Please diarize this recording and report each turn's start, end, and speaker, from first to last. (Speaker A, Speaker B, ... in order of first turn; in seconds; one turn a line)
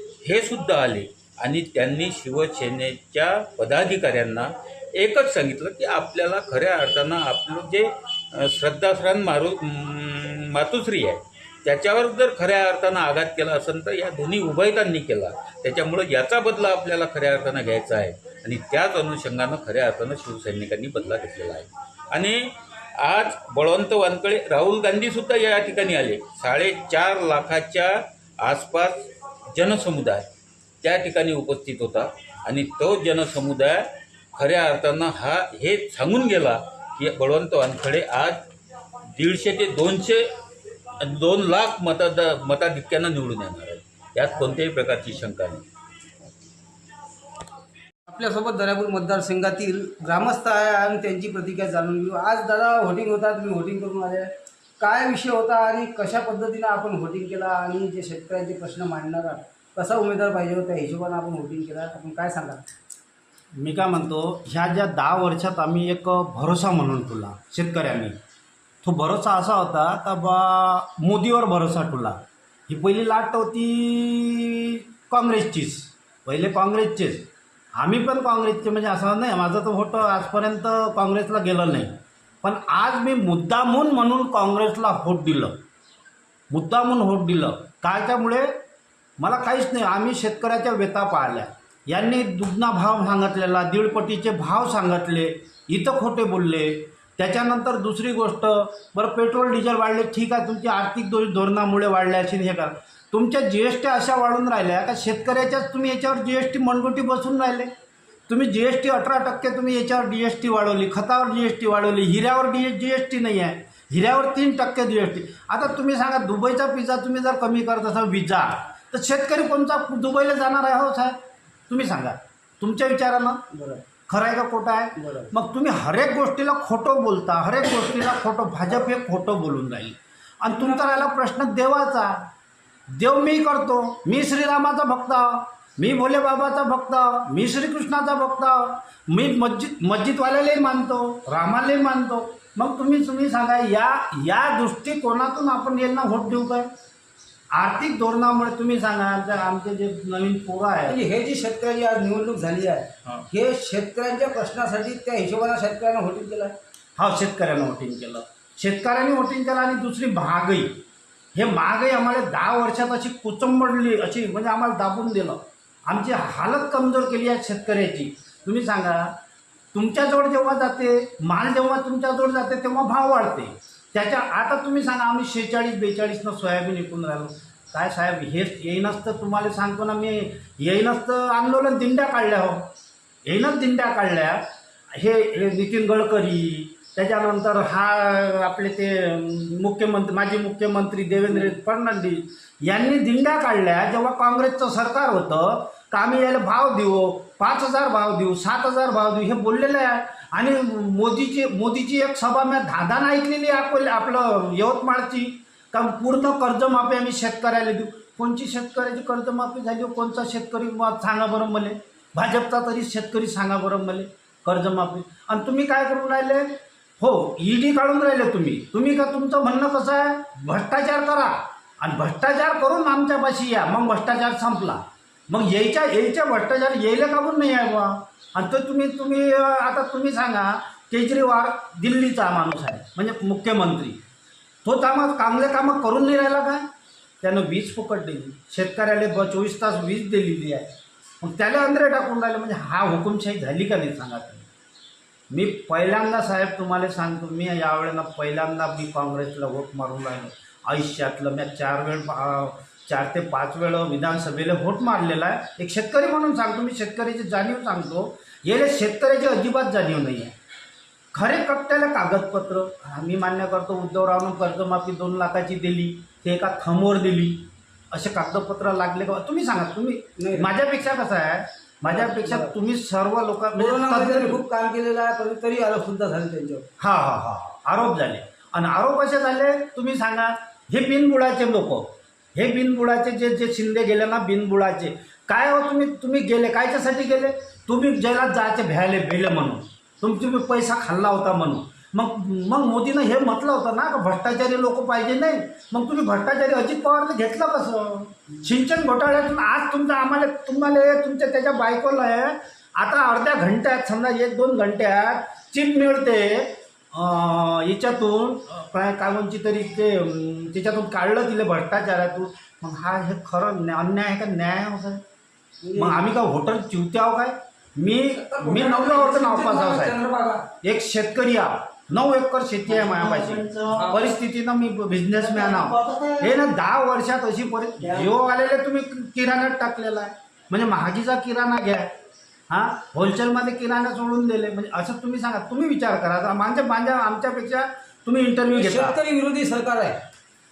Speaker A: 0.2-30.3
Speaker A: 30.8-38.4
Speaker A: 39.1-40.3
Speaker A: 41.0-45.6
Speaker B: 48.1-62.6
Speaker C: 63.5-68.2
Speaker C: 68.8-85.6
Speaker C: 86.5-88.6
Speaker C: 89.2-107.7
Speaker C: 108.3-123.5
Speaker B: 123.5-123.8
Speaker C: 124.1-132.3
Speaker B: 125.0-125.3
Speaker C: 132.9-146.7
Speaker C: 147.5-151.0
Speaker B: 150.9-156.6
Speaker C: 157.0-169.2
Speaker C: 169.7-182.7
Speaker C: 183.2-234.0
Speaker C: 234.6-236.7
Speaker C: 237.2-244.5
Speaker C: 245.3-260.3
Speaker C: 261.1-274.4
Speaker B: 270.2-270.5
Speaker B: 271.9-272.5
Speaker B: 273.6-276.7
Speaker C: 276.8-315.0
Speaker B: 315.6-316.0
Speaker C: 315.8-320.0
Speaker B: 318.2-320.5
Speaker C: 320.6-331.9
Speaker B: 322.7-324.1
Speaker B: 325.2-326.3
Speaker C: 332.5-339.0
Speaker B: 338.5-340.0